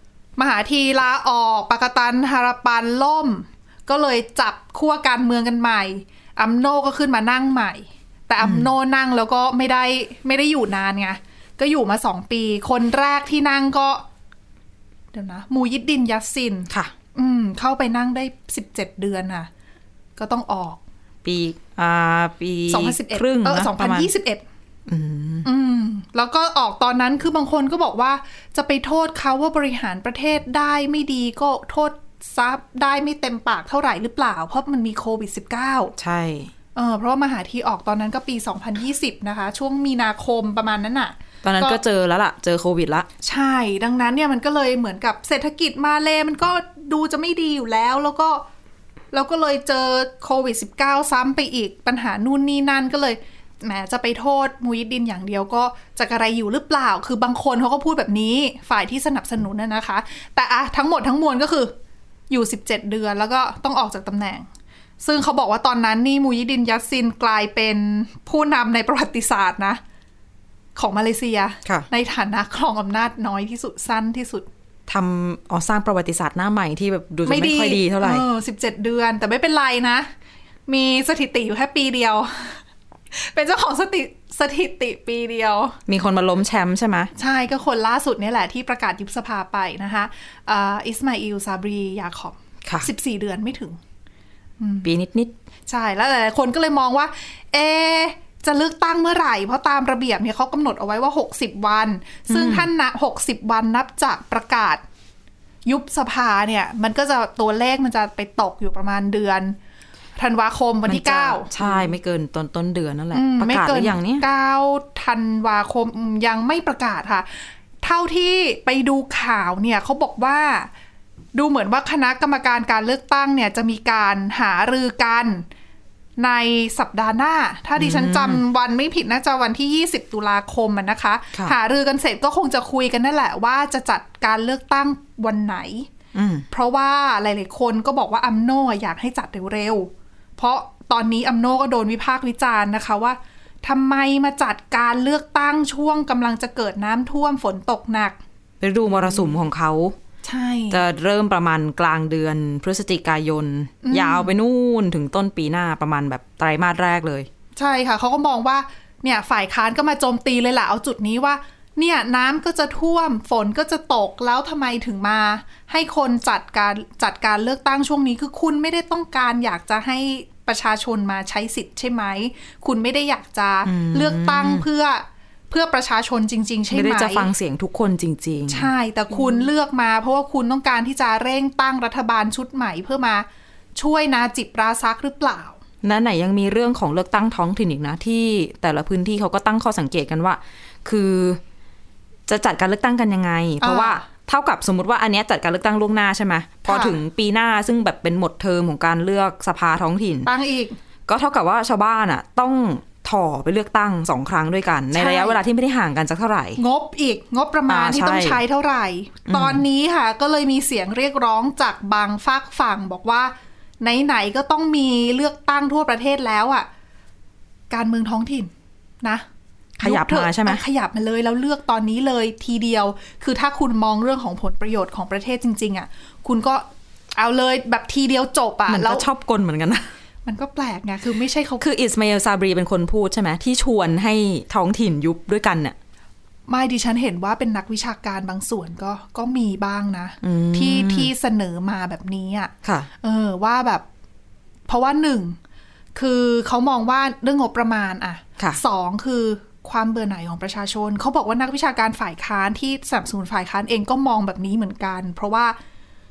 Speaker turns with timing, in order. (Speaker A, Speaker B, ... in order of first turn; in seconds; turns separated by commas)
Speaker A: 0.4-14.0, Speaker B: 8.4-8.7, Speaker A: 15.1-19.5, Speaker A: 20.2-20.8, Speaker B: 21.2-24.1, Speaker A: 22.7-24.4, Speaker B: 24.9-25.5, Speaker A: 25.4-35.9, Speaker B: 36.0-36.5, Speaker A: 36.8-41.8, Speaker B: 41.4-43.1, Speaker A: 43.2-48.4, Speaker A: 49.1-61.7, Speaker A: 62.3-64.5, Speaker A: 65.0-69.8, Speaker A: 70.8-74.5, Speaker B: 74.9-78.2, Speaker A: 77.3-80.1, Speaker A: 80.7-82.6, Speaker A: 83.1-85.8, Speaker B: 85.9-87.1, Speaker A: 87.2-93.8, Speaker A: 94.6-94.9, Speaker B: 94.8-95.3, Speaker A: 95.7-104.8, Speaker B: 102.3-102.7, Speaker A: 105.7-109.6, Speaker A: 110.2-111.5, Speaker B: 110.9-114.3, Speaker A: 113.1-120.7, Speaker A: 121.3-125.5, Speaker A: 126.2-135.9, Speaker B: 127.8-128.4, Speaker B: 136.1-136.5, Speaker A: 136.5-148.2, Speaker B: 148.6-150.0, Speaker A: 148.9-149.3, Speaker A: 150.2-150.8, Speaker B: 150.7-157.3, Speaker A: 153.8-154.3, Speaker A: 157.6-177.3, Speaker B: 173.7-174.7, Speaker B: 176.7-178.7, Speaker A: 178.5-185.6, Speaker B: 185.8-191.4, Speaker B: 192.3-200.3, Speaker A: 193.6-194.0, Speaker A: 196.7-197.0, Speaker A: 200.2-200.8, Speaker B: 201.1-206.6, Speaker A: 204.9-205.4, Speaker A: 206.6-216.7, Speaker B: 207.7-208.4, Speaker B: 209.3-209.6, Speaker A: 217.7-218.5, Speaker A: 219.8-229.1, Speaker B: 219.8-220.6, Speaker B: 228.7-229.9, Speaker A: 230.3-231.7, Speaker B: 231.6-235.8, Speaker A: 236.5-243.8, Speaker B: 240.2-241.1, Speaker B: 242.6-242.9, Speaker A: 244.7-245.4, Speaker A: 245.9-255.6